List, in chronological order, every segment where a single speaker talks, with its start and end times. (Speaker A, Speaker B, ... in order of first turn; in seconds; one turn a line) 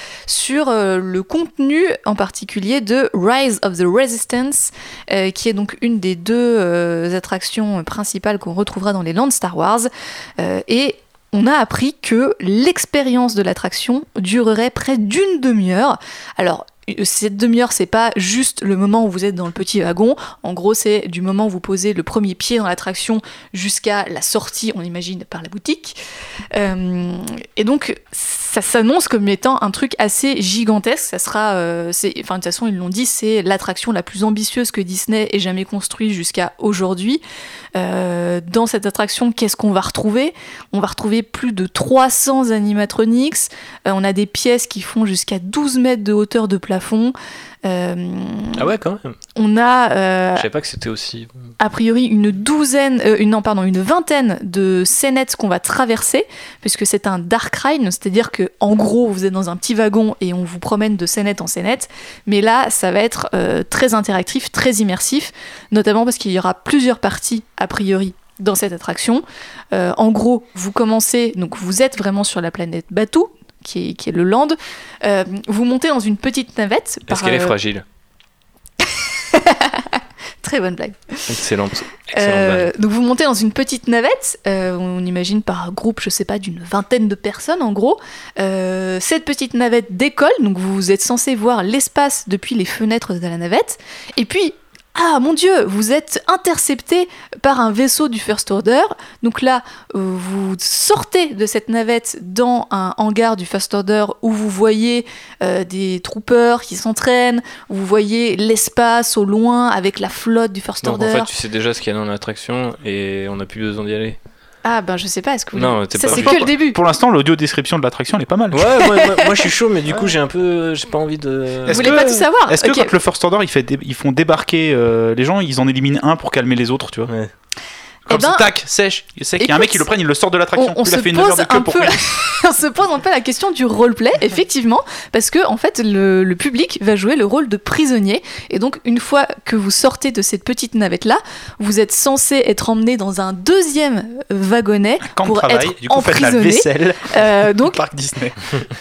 Speaker A: 0.3-26.0
Speaker A: 26.5-37.2
Speaker A: 37.8-47.1
Speaker A: 47.6-48.6
Speaker B: 48.6-49.2
Speaker A: 49.4-50.5
Speaker B: 50.4-51.5
Speaker A: 51.6-77.5
Speaker B: 77.1-77.8
Speaker A: 79.3-81.3
Speaker B: 81.3-82.7
Speaker A: 82.1-111.3
Speaker B: 110.8-114.2
Speaker A: 114.6-116.8
Speaker B: 115.5-116.5
Speaker C: 116.1-119.0
Speaker B: 118.5-122.1
Speaker C: 121.7-127.1
Speaker A: 121.7-122.9
Speaker B: 127.1-127.3
Speaker C: 128.1-132.0
Speaker A: 128.1-128.5
Speaker A: 129.4-129.9
Speaker A: 130.6-147.8
Speaker C: 145.1-148.6